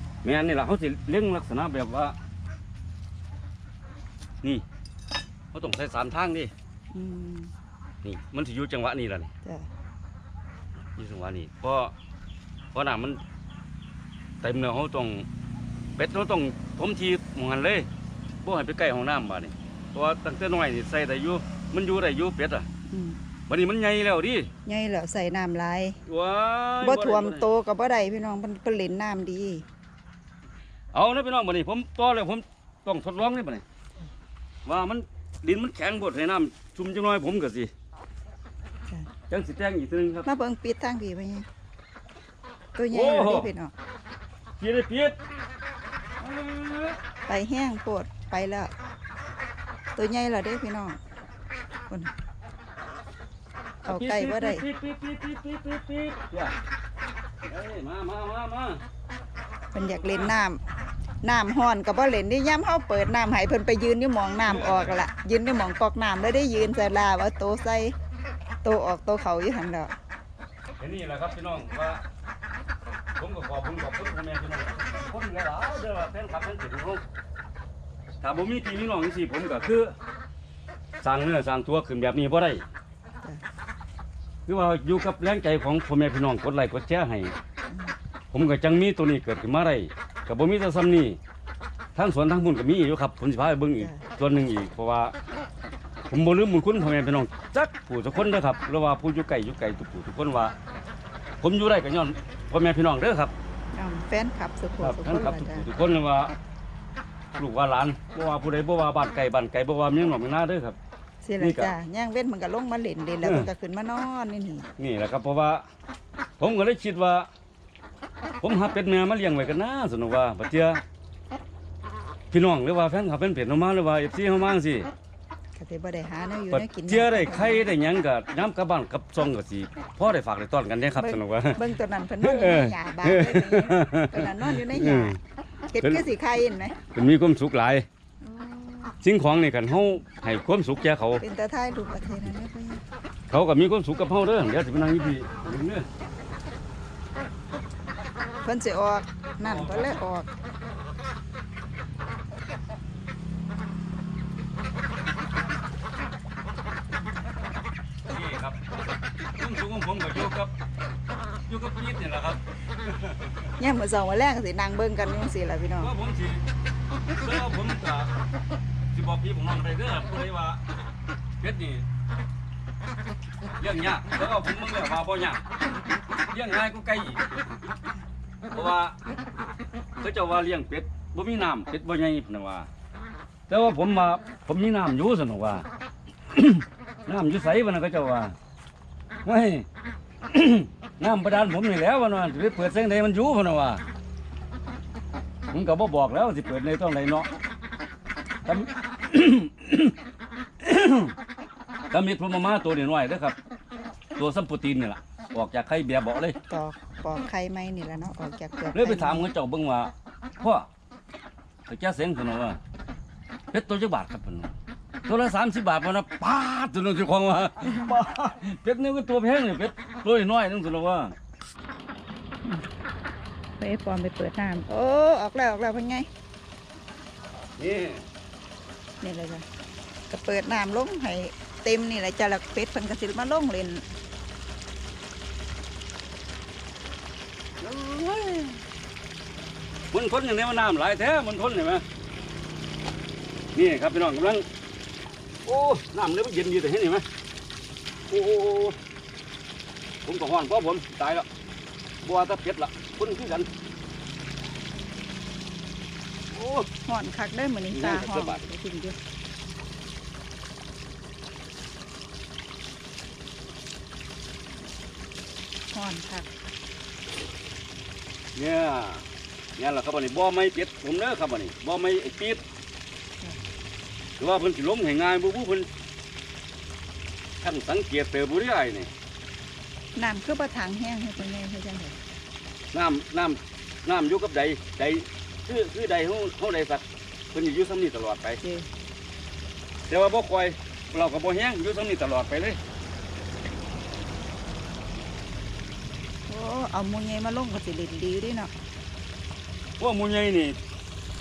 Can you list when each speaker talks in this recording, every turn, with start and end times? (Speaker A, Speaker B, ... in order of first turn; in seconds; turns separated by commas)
Speaker A: 0.2-2.1, Speaker A: 5.5-6.5, Speaker B: 6.9-7.5, Speaker A: 8.0-9.3, Speaker B: 9.4-9.7, Speaker A: 10.9-11.9, Speaker A: 12.7-13.2, Speaker A: 14.4-15.3, Speaker A: 15.9-17.9, Speaker A: 18.4-22.7, Speaker B: 22.9-23.2, Speaker A: 23.5-24.5, Speaker B: 24.6-26.0, Speaker A: 26.1-27.5, Speaker B: 26.8-29.6, Speaker A: 30.9-33.6, Speaker A: 34.6-37.7, Speaker A: 39.3-40.3, Speaker B: 40.2-41.5, Speaker B: 42.8-43.7, Speaker A: 42.9-43.5, Speaker A: 44.6-45.1, Speaker A: 46.2-47.0, Speaker B: 47.3-48.7, Speaker B: 49.9-51.0, Speaker A: 53.8-56.5, Speaker B: 53.9-54.6, Speaker A: 57.5-58.8, Speaker B: 59.7-60.6, Speaker A: 59.9-60.3, Speaker B: 61.2-67.9, Speaker A: 64.5-65.0, Speaker B: 68.6-69.9, Speaker A: 70.8-72.0, Speaker A: 73.2-77.0, Speaker A: 78.2-79.9, Speaker A: 81.0-82.6, Speaker A: 84.5-87.3, Speaker B: 87.7-87.9, Speaker A: 88.3-91.2, Speaker A: 92.0-95.1, Speaker B: 93.8-94.0, Speaker A: 96.1-100.5, Speaker A: 101.4-103.3, Speaker B: 103.7-105.7, Speaker A: 104.8-106.3, Speaker A: 107.3-110.8, Speaker B: 111.2-114.7, Speaker A: 111.4-111.7, Speaker A: 113.2-113.5, Speaker A: 114.8-115.6, Speaker A: 116.4-117.3, Speaker A: 118.4-120.8, Speaker A: 122.3-124.9, Speaker B: 125.5-127.7, Speaker A: 126.5-131.6, Speaker B: 130.9-135.2, Speaker A: 132.2-135.2, Speaker B: 135.7-136.8, Speaker A: 136.9-137.8, Speaker B: 138.2-138.9, Speaker A: 139.0-141.2, Speaker B: 141.2-142.8, Speaker A: 143.3-145.9, Speaker B: 148.4-150.3, Speaker A: 149.4-150.0, Speaker A: 158.1-158.6, Speaker A: 159.4-160.5, Speaker A: 161.5-163.4, Speaker B: 163.6-165.9, Speaker A: 165.8-166.4, Speaker A: 167.1-168.1, Speaker A: 168.9-170.7, Speaker A: 171.4-171.8, Speaker A: 173.6-175.4, Speaker A: 176.3-177.2, Speaker A: 178.5-179.0, Speaker A: 180.0-182.7, Speaker A: 183.5-185.7, Speaker A: 186.3-188.3, Speaker A: 189.2-189.7, Speaker A: 190.2-193.8, Speaker A: 195.5-197.3, Speaker A: 198.4-199.9, Speaker A: 200.6-201.1, Speaker A: 201.9-203.3, Speaker A: 204.2-206.4, Speaker B: 206.5-209.3, Speaker A: 208.7-210.7, Speaker A: 211.7-212.6, Speaker A: 213.5-214.5, Speaker A: 215.1-221.1, Speaker B: 223.6-226.1, Speaker A: 227.6-228.0, Speaker B: 229.0-229.4, Speaker B: 230.1-233.8, Speaker A: 237.6-238.6, Speaker A: 239.9-241.8, Speaker A: 243.5-244.4, Speaker A: 245.4-247.1, Speaker A: 248.1-248.8, Speaker A: 250.0-251.3, Speaker A: 252.0-253.5, Speaker A: 256.3-256.7, Speaker B: 256.8-259.0, Speaker A: 257.7-258.5, Speaker B: 265.7-266.3, Speaker A: 268.3-269.1, Speaker A: 269.6-272.4, Speaker A: 274.2-275.7, Speaker A: 277.4-278.9, Speaker B: 279.9-282.0, Speaker A: 282.7-288.4, Speaker B: 288.4-288.7, Speaker A: 289.9-292.6, Speaker B: 296.3-298.5, Speaker A: 299.8-300.6